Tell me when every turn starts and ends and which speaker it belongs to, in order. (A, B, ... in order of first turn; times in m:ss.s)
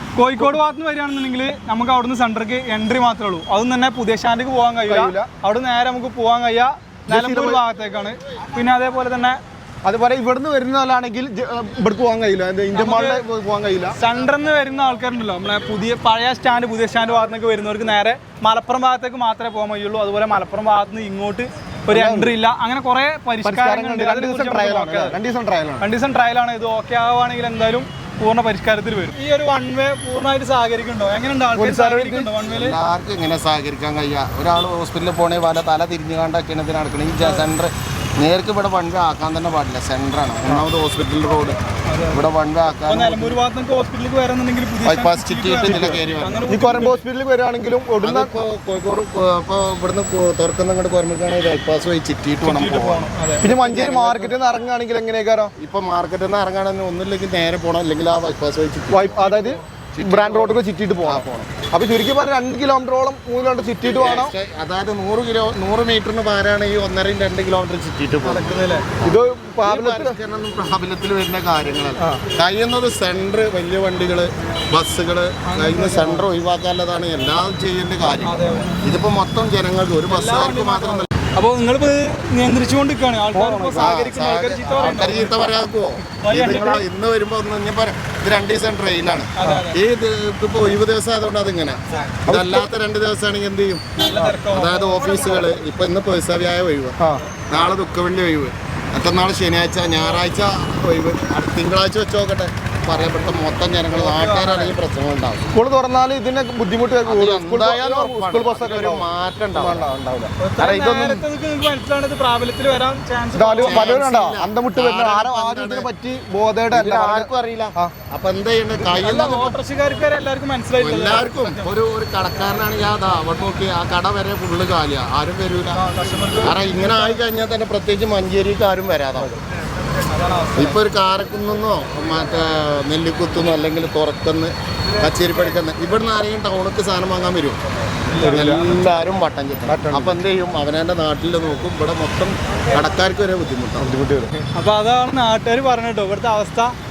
0:00.2-0:09.4 A
0:04.8-0:05.3 B
0:07.1-0:07.6 B
0:09.8-0:14.0 B
0:12.7-0:13.2 A
0:13.9-0:25.2 A
0:21.9-0:22.3 B
0:23.4-0:25.9 B
0:25.8-0:32.8 A
0:31.5-0:32.3 B
0:32.4-0:41.6 C
0:41.9-0:42.2 A
0:42.1-0:43.4 C
0:42.9-0:47.0 A
0:44.8-0:46.9 C
0:45.6-0:48.3 B
0:48.0-0:54.4 C
0:52.4-0:53.4 A
0:53.4-0:55.5 B
0:55.6-0:59.4 C
0:58.9-1:04.3 B
0:59.9-1:01.5 C
1:03.8-1:21.1 C
1:08.2-1:08.8 A
1:09.0-1:10.2 B
1:15.4-1:16.2 A
1:18.2-1:18.8 A
1:20.1-1:25.4 A
1:23.3-1:23.9 B
1:23.8-1:33.9 C
1:26.1-1:26.8 A
1:29.4-1:29.8 A
1:32.3-1:32.7 B
1:34.0-1:35.4 A
1:34.5-1:37.0 C
1:37.5-1:45.5 C
1:43.9-1:44.7 A
1:45.5-1:50.3 B
1:47.0-1:49.8 C
1:50.4-1:54.0 A
1:50.6-1:51.2 C
1:53.3-1:57.9 B
1:53.6-1:55.9 C
1:56.7-1:59.6 C
1:59.0-2:01.7 A
2:00.8-2:05.8 C
2:05.7-2:07.2 A
2:06.4-2:09.3 C
2:10.0-2:10.8 A
2:10.6-2:17.6 C
2:18.1-2:18.7 A
2:18.2-2:18.6 B
2:18.2-2:23.9 C
2:19.7-2:20.2 B
2:23.8-2:24.4 B
2:24.5-2:26.7 A